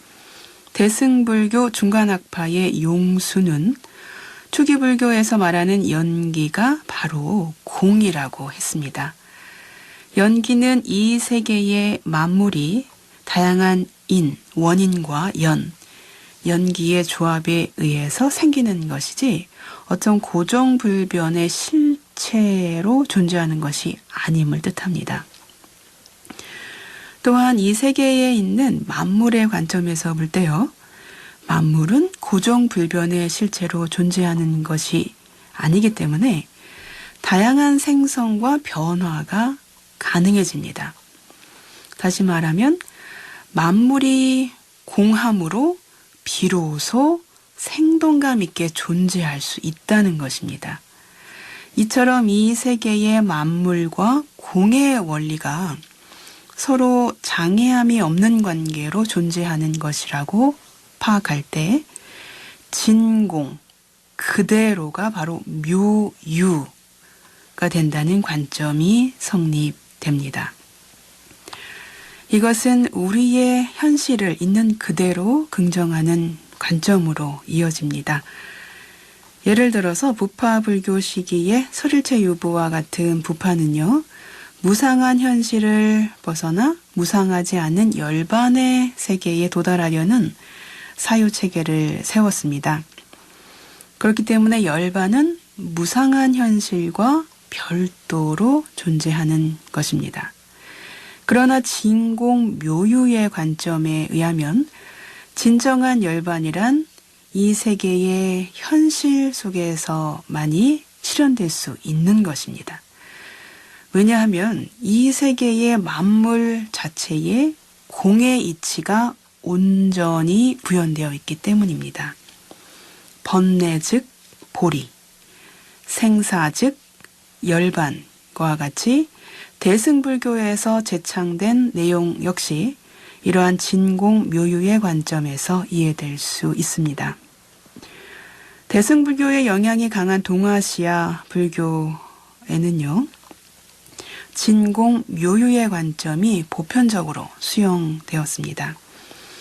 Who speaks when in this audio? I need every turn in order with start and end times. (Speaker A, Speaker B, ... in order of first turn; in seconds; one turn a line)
Speaker A: 0.7-3.8
Speaker A: 4.5-9.2
Speaker A: 10.2-15.7
Speaker A: 16.4-25.3
Speaker A: 27.2-30.7
Speaker A: 31.5-36.5
Speaker A: 37.2-41.0
Speaker A: 42.0-42.8
Speaker A: 43.5-50.8
Speaker A: 51.8-55.8
Speaker A: 56.5-61.9
Speaker A: 62.7-63.6
Speaker A: 64.2-66.7
Speaker A: 67.6-70.5
Speaker A: 72.3-78.2
Speaker A: 79.4-84.0
Speaker A: 84.6-90.4
Speaker A: 91.0-92.8
Speaker A: 94.0-100.3
Speaker A: 101.3-104.7
Speaker A: 105.3-112.8
Speaker A: 113.9-122.2
Speaker A: 123.2-124.9
Speaker A: 125.9-126.8
Speaker A: 127.4-137.2
Speaker A: 138.7-143.1
Speaker A: 144.3-148.8